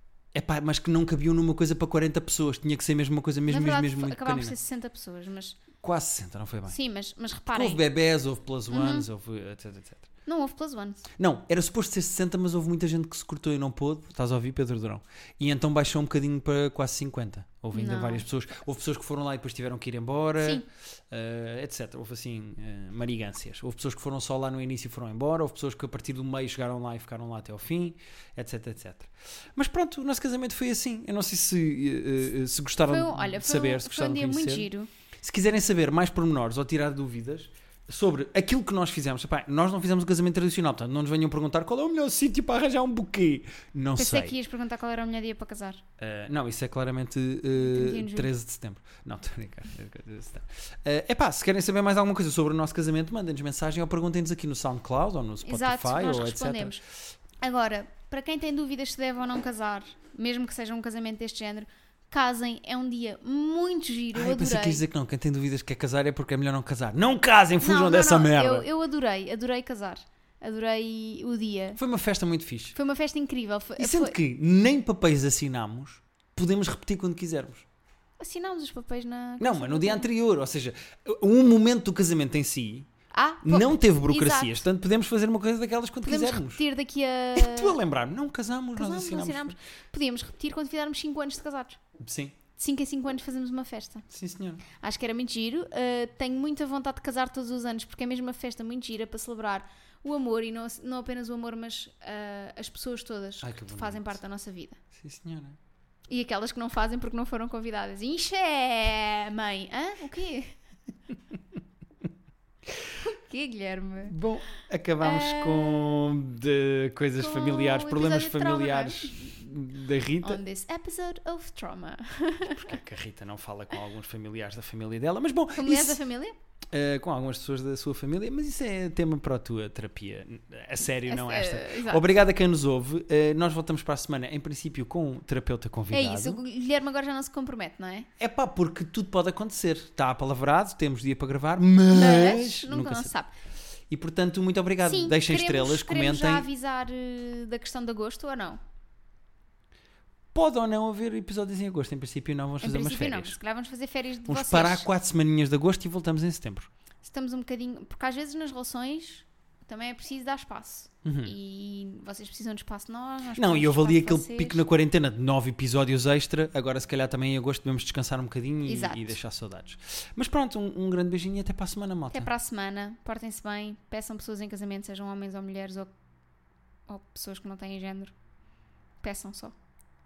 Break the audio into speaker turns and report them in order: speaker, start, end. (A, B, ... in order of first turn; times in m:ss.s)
0:00.3-0:04.5 A
0:03.5-0:05.6 B
0:05.8-0:06.8 A
0:06.7-0:07.8 B
0:07.5-0:10.0 A
0:08.7-0:09.0 B
0:10.3-0:11.1 B
0:11.2-0:34.7 A
0:17.7-0:18.2 B
0:20.4-0:20.6 B
0:32.8-0:34.9 B
0:35.2-0:44.4 A
0:44.0-0:45.8 B
0:46.0-0:56.8 A
0:47.6-0:48.3 B
0:55.4-0:56.8 B
0:57.4-1:04.8 B
1:04.2-1:08.7 A
1:07.6-1:11.8 B
1:11.8-1:12.8 A
1:12.8-1:14.2 B
1:13.8-1:17.6 A
1:18.2-1:20.1 B
1:19.4-1:22.9 A
1:23.1-1:24.6 B
1:23.4-1:26.6 A
1:26.0-1:27.8 B
1:27.4-1:29.6 A
1:28.8-1:31.8 B
1:32.0-1:32.4 A
1:32.6-1:34.1 B
1:34.1-1:34.6 A
1:34.7-1:44.8 B
1:43.4-1:44.2 A
1:44.9-1:45.6 A
1:46.1-1:50.6 B
1:53.0-1:54.2 B
1:54.1-2:00.4 A
1:55.0-1:56.1 B
1:57.2-1:59.3 B
2:00.2-2:02.8 B
2:02.5-2:06.0 A
2:05.6-2:06.4 B
2:06.7-2:16.4 A
2:11.1-2:12.0 B
2:15.9-2:18.1 B
2:18.2-2:23.1 A
2:21.9-2:23.3 B
2:23.9-2:26.5 A
2:24.8-2:28.6 B
2:30.3-2:33.4 A
2:32.6-2:34.9 B
2:34.3-2:36.7 A
2:37.0-2:44.6 B
2:41.0-2:41.3 A
2:43.4-2:52.3 A
2:48.7-2:49.2 B
2:52.1-2:55.9 B
2:56.9-2:58.2 B
2:59.0-2:59.6 B